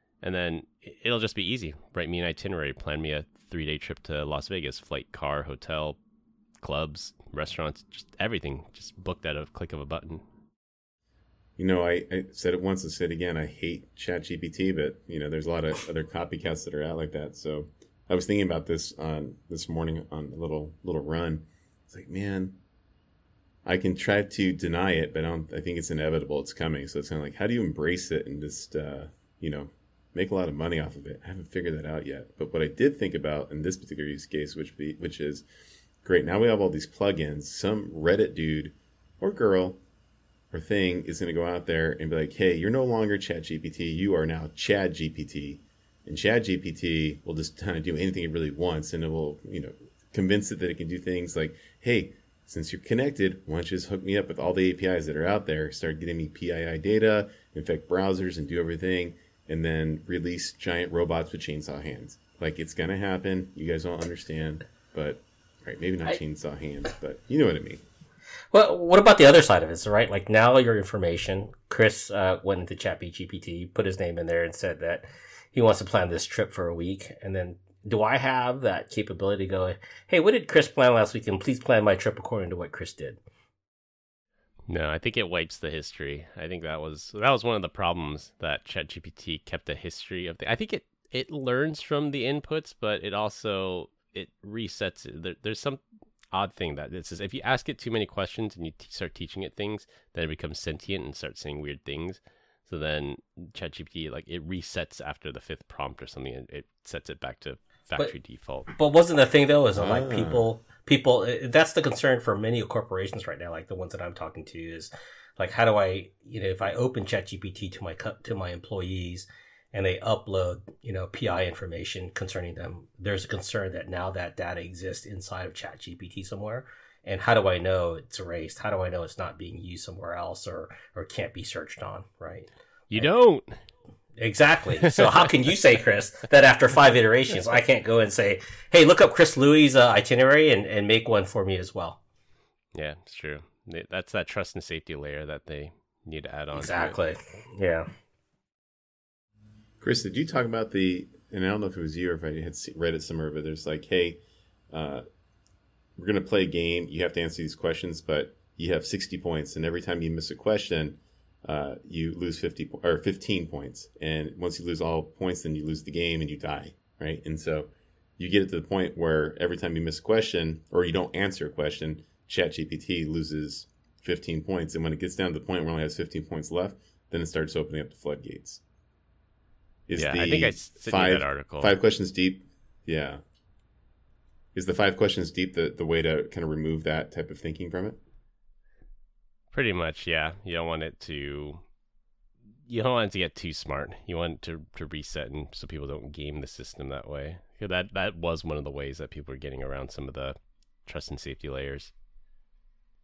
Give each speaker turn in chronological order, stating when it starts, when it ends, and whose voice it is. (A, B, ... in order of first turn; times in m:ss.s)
0:00.2-0:06.0 A
0:06.6-0:10.2 A
0:11.6-0:22.6 B
0:23.6-0:35.4 B
0:36.0-0:39.8 B
0:40.5-1:07.8 B
1:08.5-1:23.2 C
1:24.7-1:35.8 A
1:36.3-1:48.7 A
1:48.7-2:13.1 C
1:49.7-1:50.4 B
2:12.9-2:13.6 A
2:14.2-2:22.0 C
2:22.7-2:27.0 A
2:26.5-2:27.9 C
2:29.8-2:35.0 B
2:36.0-2:58.6 B
2:59.9-3:03.2 B
3:00.0-3:01.8 A
3:04.5-3:08.0 B
3:09.5-3:11.6 A
3:12.7-3:21.9 A